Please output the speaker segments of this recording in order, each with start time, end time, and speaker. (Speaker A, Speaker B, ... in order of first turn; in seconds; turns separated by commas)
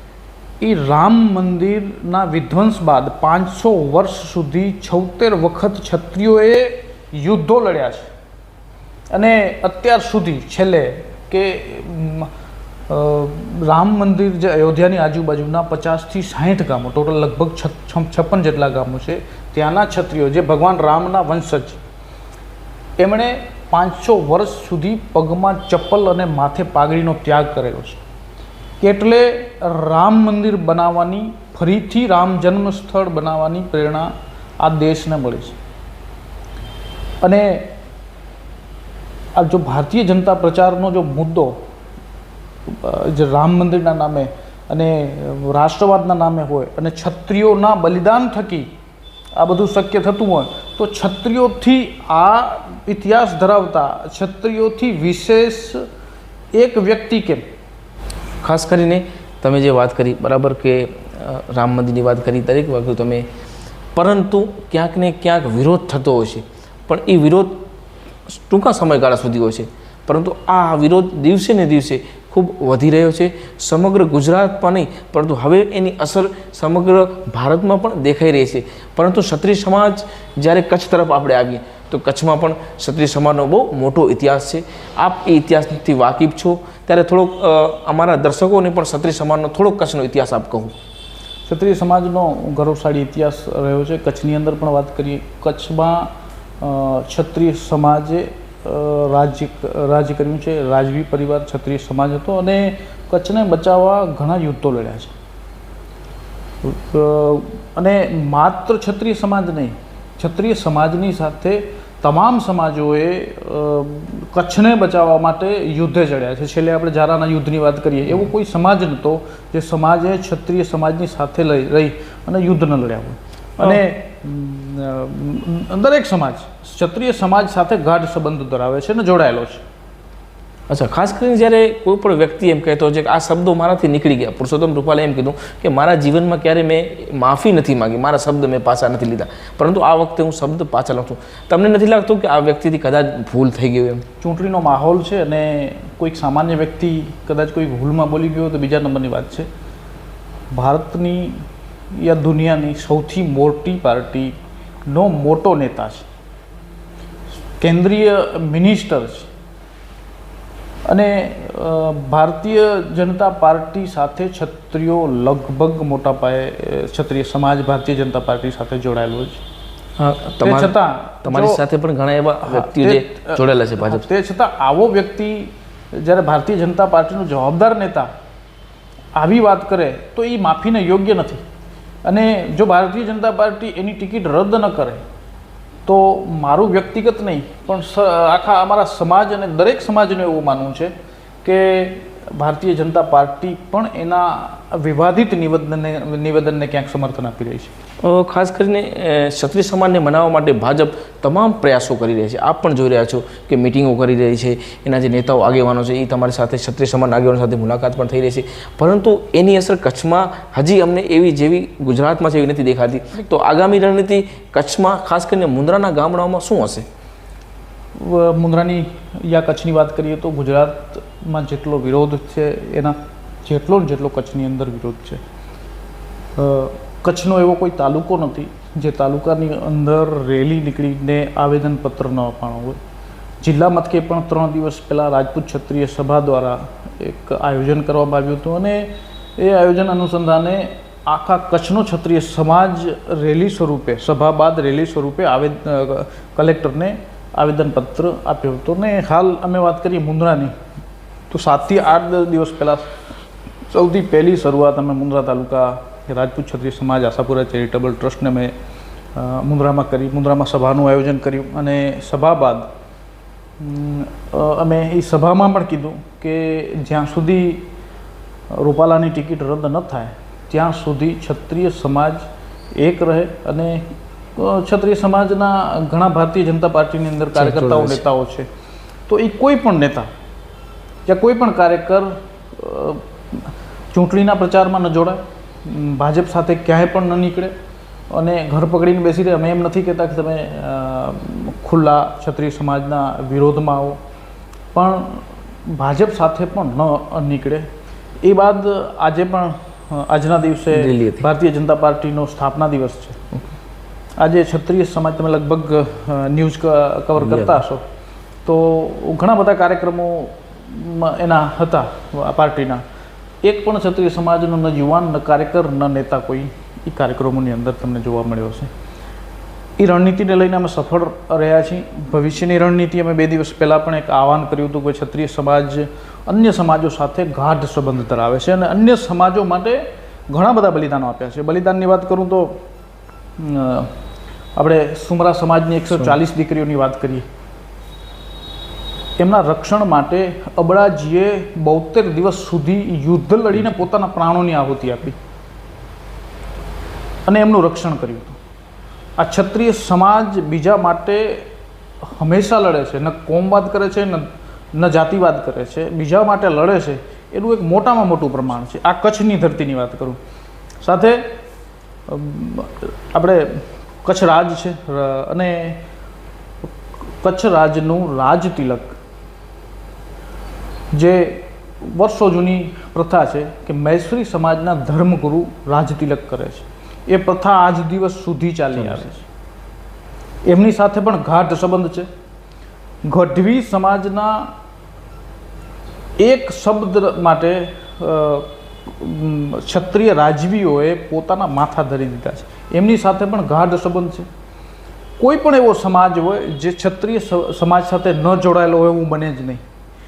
Speaker A: 0.6-8.1, Speaker A: 9.1-12.3, Speaker A: 12.9-21.8, Speaker A: 23.0-28.0, Speaker A: 28.8-35.6, Speaker A: 37.2-37.7, Speaker A: 39.4-41.6, Speaker A: 42.7-48.7, Speaker A: 49.4-55.9, Speaker A: 56.5-57.4, Speaker B: 58.4-63.3, Speaker B: 64.0-67.6, Speaker B: 68.3-90.8, Speaker A: 91.5-105.1, Speaker A: 106.6-129.6, Speaker B: 130.7-144.1, Speaker A: 144.2-149.5, Speaker A: 150.5-154.3, Speaker A: 154.9-156.1, Speaker A: 157.6-159.3, Speaker A: 160.9-169.4, Speaker B: 170.0-174.1, Speaker A: 170.4-171.6, Speaker A: 172.4-178.1, Speaker A: 179.2-181.4, Speaker A: 182.1-185.0, Speaker A: 185.9-190.9, Speaker A: 191.4-197.7, Speaker B: 198.0-216.9, Speaker A: 218.0-225.2, Speaker A: 226.4-232.8, Speaker A: 233.4-250.5, Speaker A: 251.3-252.9, Speaker A: 253.7-258.5, Speaker A: 259.2-262.7, Speaker A: 263.6-267.7, Speaker A: 268.5-272.2, Speaker A: 272.8-278.5, Speaker B: 277.4-278.0, Speaker A: 279.1-280.1, Speaker A: 281.1-287.5, Speaker A: 288.1-294.0, Speaker A: 294.7-297.7, Speaker A: 298.2-303.2, Speaker B: 300.7-301.3, Speaker A: 304.2-307.8, Speaker B: 307.2-307.6, Speaker A: 308.5-312.8, Speaker A: 313.4-318.7, Speaker A: 319.8-332.6, Speaker A: 333.4-333.9, Speaker A: 334.6-337.3, Speaker A: 339.2-345.2, Speaker A: 347.3-348.4, Speaker A: 349.2-351.5, Speaker A: 352.1-360.2, Speaker A: 360.8-361.3, Speaker A: 362.1-365.8, Speaker A: 366.7-369.0, Speaker A: 370.9-379.2, Speaker A: 380.4-382.1, Speaker A: 383.1-384.5, Speaker A: 386.2-394.3, Speaker A: 395.2-399.6